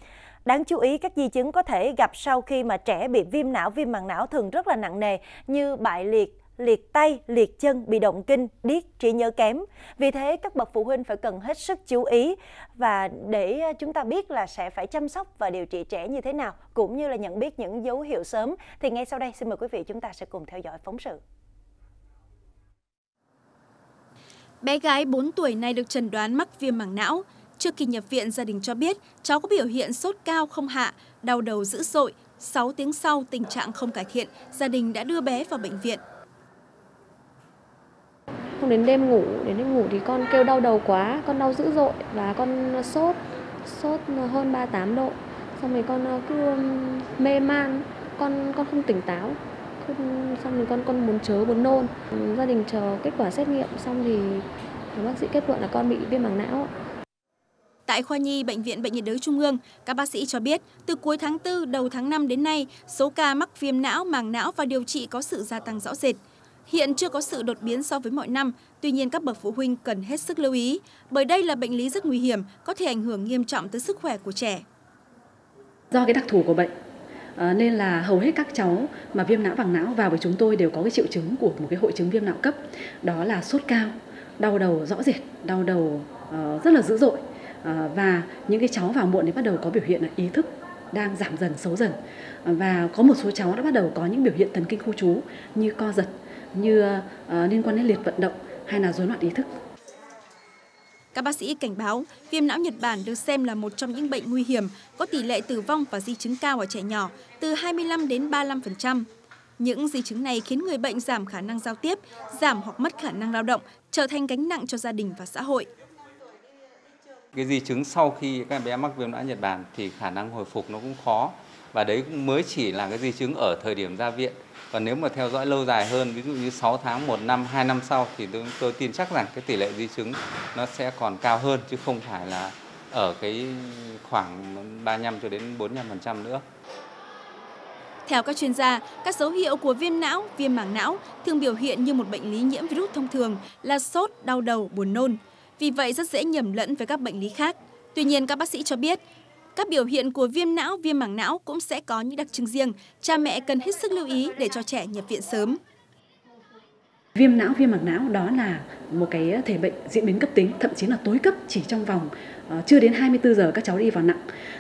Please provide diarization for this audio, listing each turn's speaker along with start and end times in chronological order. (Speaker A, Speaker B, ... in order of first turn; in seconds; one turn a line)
Speaker A: 0.5-21.2
Speaker B: 24.6-36.0
Speaker C: 38.6-56.7
Speaker B: 57.9-74.6
Speaker D: 75.9-76.7
Speaker D: 77.4-99.5
Speaker B: 101.1-109.1
Speaker B: 109.6-115.7
Speaker E: 117.3-136.4
Speaker B: 138.1-149.0
Speaker B: 149.6-155.6
Speaker D: 157.2-164.2